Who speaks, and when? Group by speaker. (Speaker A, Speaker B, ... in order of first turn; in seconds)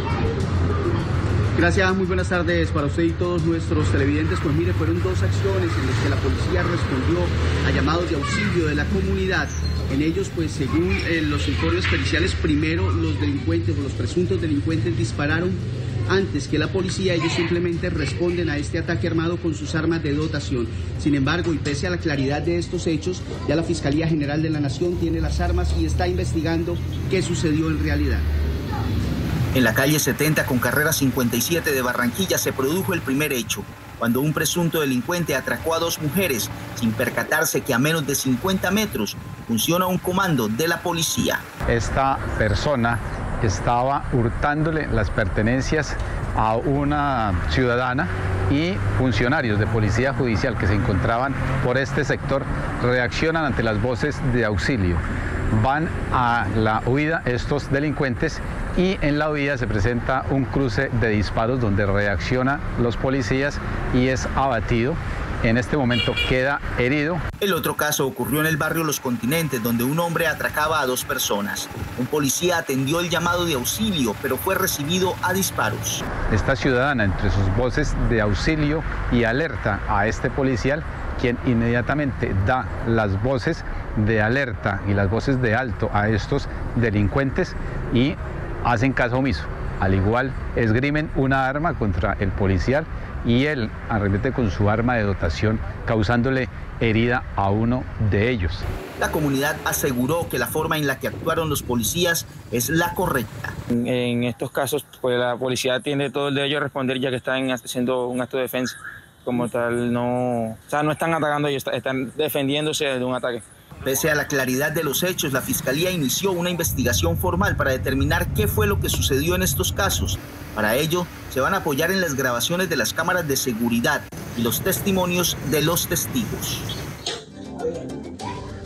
Speaker A: 1.6-15.6, 16.3-19.1, 19.6-28.3
Speaker B: 2.9-3.7, 10.0-11.4, 12.4-15.4, 16.1-16.3, 18.2-20.2, 22.0-23.1, 29.5-41.4, 67.4-76.1, 99.0-103.5, 113.8-126.7
Speaker C: 41.7-55.0, 55.5-67.2, 76.3-98.6
Speaker D: 103.8-113.4